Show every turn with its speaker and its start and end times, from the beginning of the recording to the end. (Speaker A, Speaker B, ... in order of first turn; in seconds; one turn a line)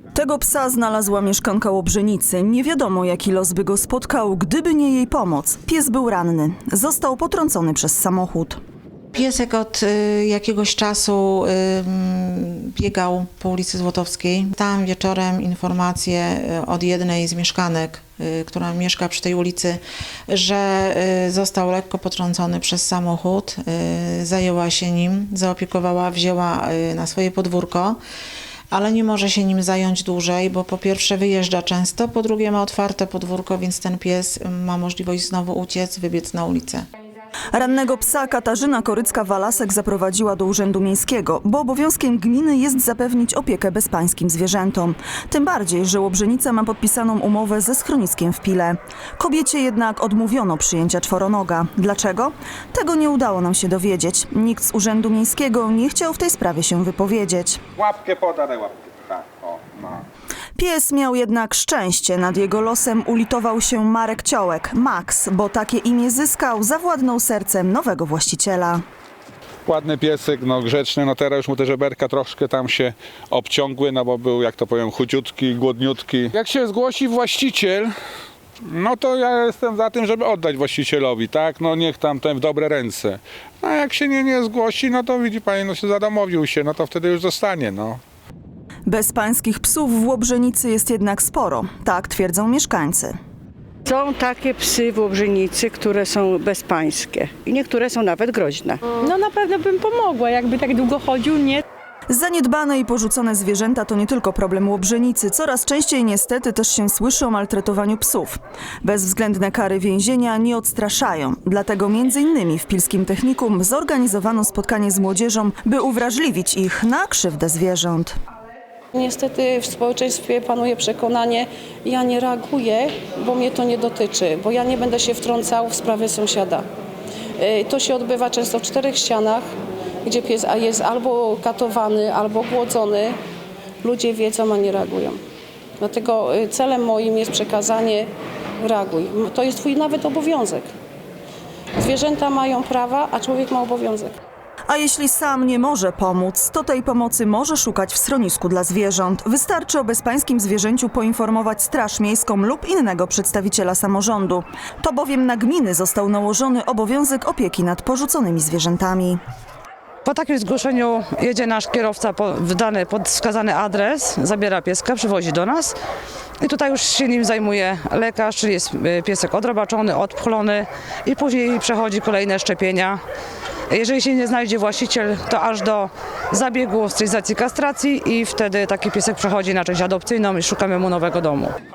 Speaker A: 0.1-8.6
Speaker B: 9.2-28.0
Speaker B: 28.7-36.9
Speaker A: 37.5-57.6
Speaker C: 57.8-60.0
Speaker A: 60.6-68.8
Speaker C: 69.7-77.9
Speaker C: 78.6-88.0
Speaker A: 88.9-93.1
Speaker D: 93.9-98.8
Speaker E: 99.0-101.6
Speaker A: 102.1-118.2
Speaker F: 118.9-126.7
Speaker F: 127.4-129.4
Speaker F: 130.0-133.2
Speaker F: 133.8-135.2
Speaker F: 135.8-138.1
Speaker F: 138.6-140.7
Speaker F: 141.8-144.2
Speaker A: 144.7-159.2
Speaker G: 160.1-165.8
Speaker G: 166.4-173.0
Speaker G: 173.7-181.5